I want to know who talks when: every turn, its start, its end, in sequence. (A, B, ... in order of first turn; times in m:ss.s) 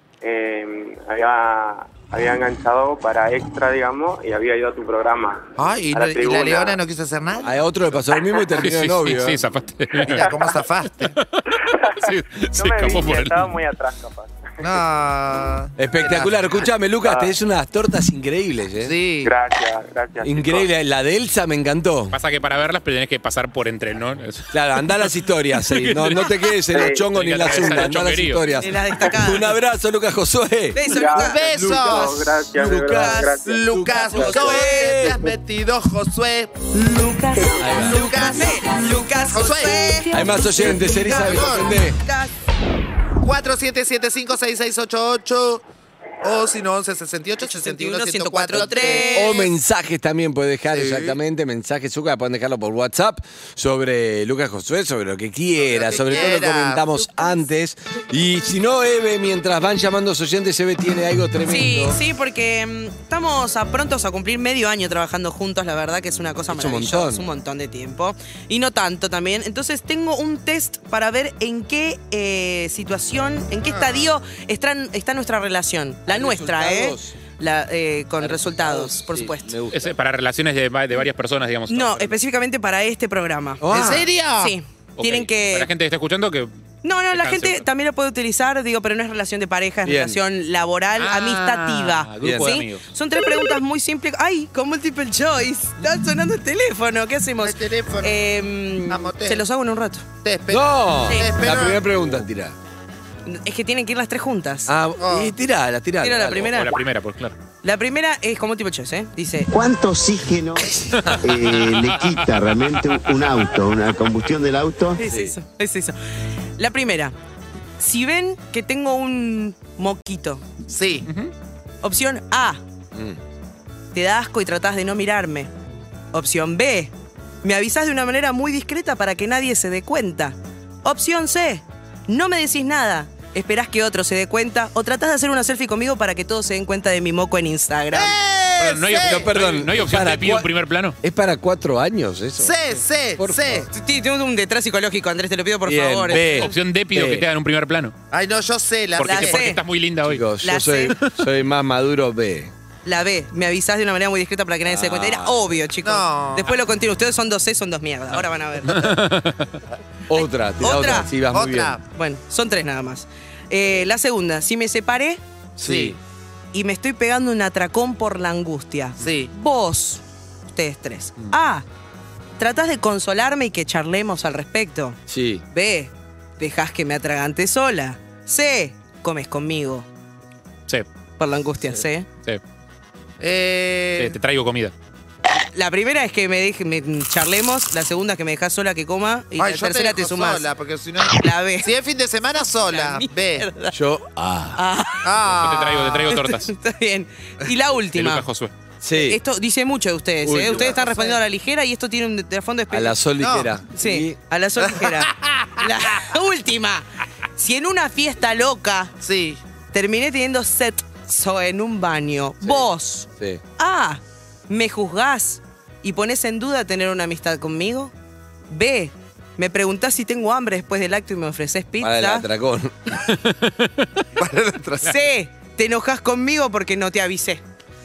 0:00.2-0:06.8 A
0:05.6-0:07.6 B
0:07.4-0:09.4 C
0:08.6-0:10.3 D
0:10.0-0:11.2 B
0:11.6-0:14.3 A
0:11.9-0:13.6 D
0:14.6-0:16.4 B
0:15.8-0:19.0 C
0:17.0-0:17.3 A
0:18.8-0:19.3 B
0:19.2-0:20.7 A
0:20.2-0:22.2 C
0:22.1-0:26.4 D
0:24.5-0:35.2 C
0:26.7-0:27.1 A
0:27.1-0:28.4 D
0:28.6-0:29.5 E
0:30.8-0:31.4 E
0:30.9-0:34.5 A
0:31.2-0:32.1 B
0:32.9-0:33.4 E
0:33.5-0:36.6 B
0:34.0-0:35.1 E
0:36.7-0:42.3 E
0:37.6-0:38.2 C
0:37.9-0:40.1 B
0:40.1-0:42.0 C
0:40.6-0:41.7 B
0:43.2-0:45.7 B
0:46.2-0:49.4 B
0:47.4-0:49.5 E
0:48.5-1:02.0 C
0:50.7-0:51.2 B
0:55.6-0:56.8 B
1:01.5-1:19.6 E
1:06.5-1:07.2 C
1:13.6-1:14.1 B
1:16.1-1:17.2 C
1:18.2-1:20.0 C
1:19.7-1:22.2 D
1:21.7-1:23.7 E
1:23.6-1:24.1 C
1:23.7-1:24.6 B
1:24.4-1:25.7 E
1:25.0-1:26.5 D
1:26.8-1:40.1 E
1:27.1-1:27.7 D
1:29.8-1:30.2 C
1:31.0-1:32.9 D
1:32.2-1:32.6 C
1:37.4-1:38.3 B
1:38.9-1:39.4 B
1:40.2-1:41.8 B
1:40.5-1:42.6 C
1:43.3-1:44.7 E
1:44.7-1:46.6 C
1:45.0-1:45.4 B
1:46.0-1:46.7 E
1:46.4-1:47.4 D
1:47.6-1:49.5 E
1:49.5-1:55.0 F
1:50.8-1:51.1 C
1:51.0-1:53.6 D
1:55.0-1:56.0 E
1:55.1-1:55.4 C
1:56.6-1:57.2 E
1:57.8-2:00.4 E
2:00.7-2:01.1 B
2:01.1-2:01.3 D
2:01.8-2:02.6 E
2:02.9-2:03.2 C
2:03.9-2:05.5 E
2:06.1-2:18.2 E
2:17.9-2:19.4 B
2:18.6-2:21.0 D
2:19.0-2:20.5 C
2:21.0-2:23.7 C
2:22.4-2:23.7 B
2:23.7-2:26.5 E
2:25.6-2:27.3 C
2:26.2-2:27.9 D
2:28.1-2:29.5 B
2:29.0-2:30.2 D
2:29.0-2:29.6 E
2:30.0-2:32.5 C
2:30.4-2:31.0 E
2:32.8-2:38.8 E
2:34.6-2:35.5 C
2:35.8-2:36.6 B
2:38.6-2:39.6 D
2:40.1-2:41.8 C
2:40.2-2:41.1 E
2:41.2-2:41.8 B
2:41.9-2:45.2 E
2:45.6-2:46.0 C
2:45.6-2:46.0 B
2:46.5-2:51.7 E
2:49.0-2:49.3 B
2:52.4-2:55.0 E
2:55.1-2:55.4 C
2:55.5-2:59.9 E
3:01.2-3:02.1 E
3:03.2-3:04.2 B
3:04.0-3:04.7 D
3:05.3-3:10.4 E
3:09.4-3:13.5 B
3:11.1-3:11.7 E
3:12.7-3:13.8 E
3:13.7-3:14.6 C
3:14.6-3:15.1 E
3:15.0-3:16.2 B
3:15.4-3:16.5 D
3:16.1-3:18.2 E
3:17.9-3:18.5 D
3:18.8-3:19.2 C
3:19.0-3:23.0 E
3:20.2-3:20.8 C
3:20.5-3:21.2 B
3:22.7-3:24.2 C
3:23.2-3:23.5 B
3:23.7-3:28.9 E
3:24.6-3:25.6 B
3:29.0-3:29.4 B
3:29.7-3:37.9 E
3:32.4-3:33.4 C
3:38.5-3:42.3 E
3:41.8-3:43.0 C
3:43.0-3:43.9 D
3:44.2-3:45.0 B
3:44.8-3:47.4 E